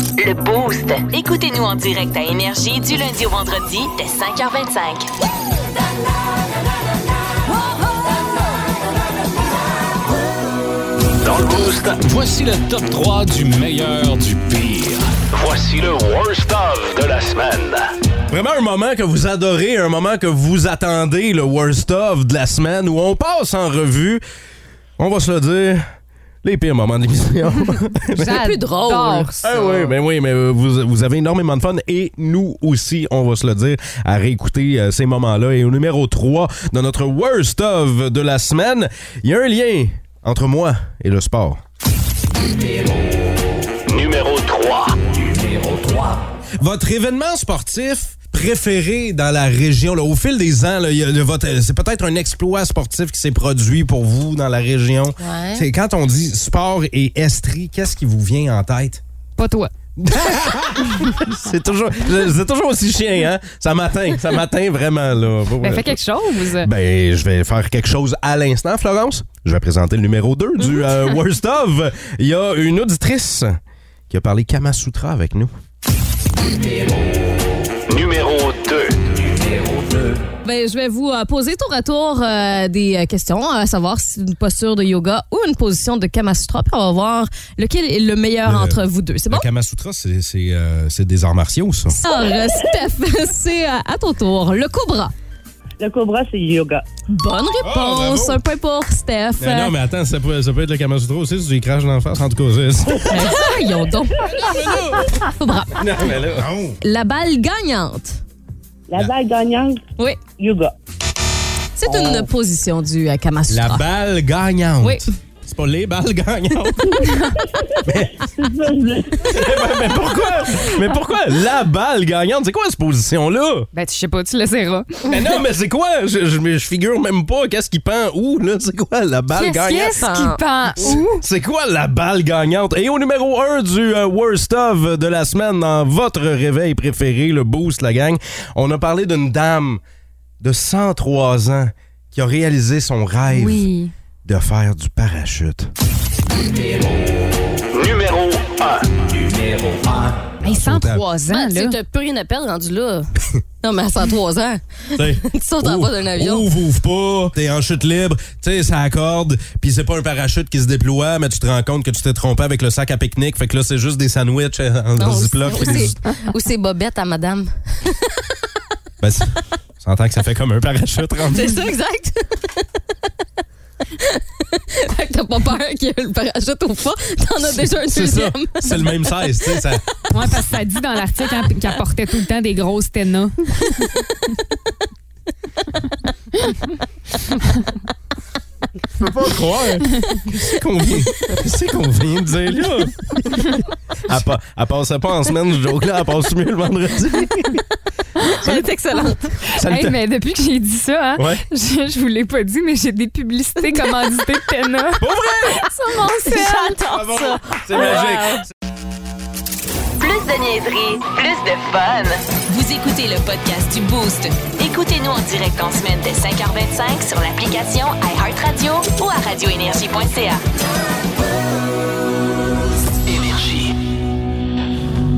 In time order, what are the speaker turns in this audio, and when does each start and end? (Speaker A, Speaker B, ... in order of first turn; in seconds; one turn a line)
Speaker A: 0.2-5.1
Speaker B: 11.2-12.0
Speaker C: 12.1-15.1
Speaker B: 15.3-17.9
Speaker D: 18.3-24.2
Speaker D: 25.0-25.8
Speaker D: 26.4-28.5
Speaker E: 28.1-29.7
Speaker F: 28.4-29.3
Speaker D: 29.4-41.6
Speaker B: 43.9-45.0
Speaker D: 46.6-59.0
Speaker F: 55.2-55.6
Speaker E: 59.4-59.7
Speaker D: 60.0-66.0
Speaker E: 65.6-66.7
Speaker D: 66.6-73.6
Speaker D: 74.1-75.5
Speaker B: 77.9-79.3
Speaker F: 80.4-89.5
Speaker D: 88.5-92.0
Speaker F: 91.9-95.1
Speaker G: 95.8-96.8
Speaker F: 97.1-99.7
Speaker D: 97.6-98.4
Speaker D: 99.4-103.6
Speaker F: 103.1-104.1
Speaker D: 104.2-105.1
Speaker F: 105.3-106.2
Speaker D: 105.8-106.8
Speaker F: 106.8-108.2
Speaker G: 108.9-109.8
Speaker G: 110.4-110.7
Speaker F: 111.8-113.8
Speaker D: 113.5-117.2
Speaker E: 117.0-117.3
Speaker D: 117.8-118.3
Speaker G: 118.6-118.9
Speaker D: 119.2-123.7
Speaker E: 123.7-125.0
Speaker D: 125.1-130.0
Speaker F: 129.3-130.9
Speaker E: 129.5-131.2
Speaker D: 130.8-139.8
Speaker D: 140.4-143.7
Speaker E: 143.3-143.9
Speaker D: 144.2-145.7
Speaker B: 147.7-148.9
Speaker D: 150.4-151.0
Speaker E: 150.4-151.8
Speaker F: 151.2-153.1
Speaker F: 153.6-156.5
Speaker D: 154.9-166.0
Speaker F: 165.0-167.5
Speaker D: 169.0-171.8
Speaker F: 171.3-172.3
Speaker F: 174.8-179.6
Speaker D: 177.6-180.0
Speaker E: 180.1-183.7
Speaker D: 189.0-197.6
Speaker F: 198.4-199.3
Speaker D: 199.5-200.0
Speaker E: 199.6-206.8
Speaker D: 201.2-201.4
Speaker F: 203.7-204.2
Speaker D: 205.0-205.6
Speaker F: 205.9-208.4
Speaker D: 206.9-208.5
Speaker A: 210.0-220.4
Speaker B: 223.1-223.4